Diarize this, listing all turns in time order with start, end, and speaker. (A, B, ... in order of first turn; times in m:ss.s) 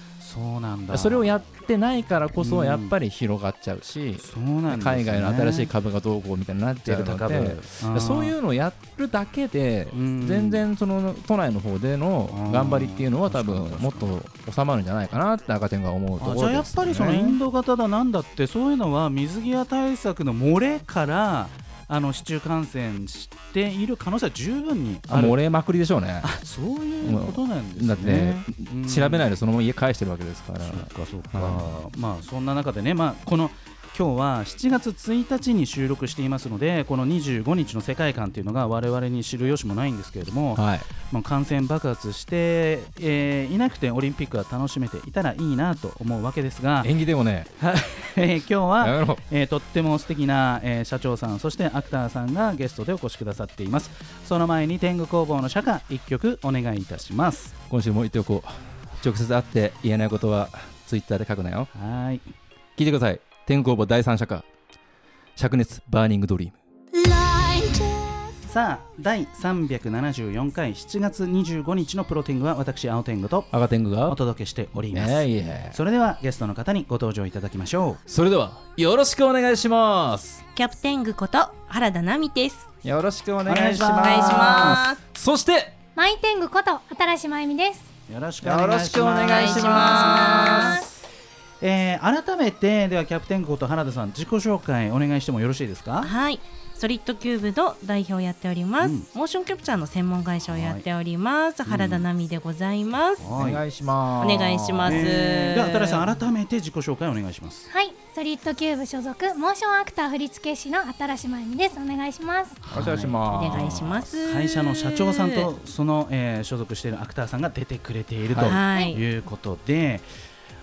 0:00.2-0:01.3 A
0:00.9-0:17.4 B
0:02.4-0:02.9 A
0:04.2-0:05.7 A
0:06.8-0:08.4 A
0:09.9-0:10.7 A
0:12.3-0:14.2 A
0:16.2-0:25.4 A
0:25.1-0:26.3 B
0:26.2-0:29.3 A
0:27.0-0:31.7 B
0:30.6-0:46.9 A
0:40.5-0:40.9 B
0:46.8-0:47.5 B
0:47.6-0:57.6 A
0:48.8-0:49.2 B
0:57.7-1:01.7 B
1:01.7-1:02.3 A
1:02.8-1:04.4 B
1:05.4-1:06.6 B
1:07.0-1:07.9 C
1:08.4-1:13.5 A
1:13.5-1:14.2 B
1:14.1-1:18.0 A
1:14.9-1:15.8 B
1:18.1-1:20.4 B
1:20.5-1:22.7 C
1:22.8-1:25.7 B
1:23.4-1:24.8 A
1:24.0-1:25.0 C
1:26.0-1:27.9 D
1:28.1-1:30.9 A
1:28.4-1:30.9 B
1:29.3-1:30.8 C
1:29.6-1:30.8 D
1:31.6-1:36.1 A
1:36.0-1:43.3 C
1:38.8-1:39.1 A
1:40.4-1:40.9 A
1:41.7-1:42.1 A
1:43.2-1:43.6 A
1:43.4-1:45.0 B
1:44.2-1:46.1 C
1:44.8-1:47.7 A
1:47.7-1:52.6 D
1:52.7-2:00.1 A
1:52.7-1:54.0 B
1:53.3-1:55.5 C
1:58.3-1:58.6 B
1:58.4-1:59.0 C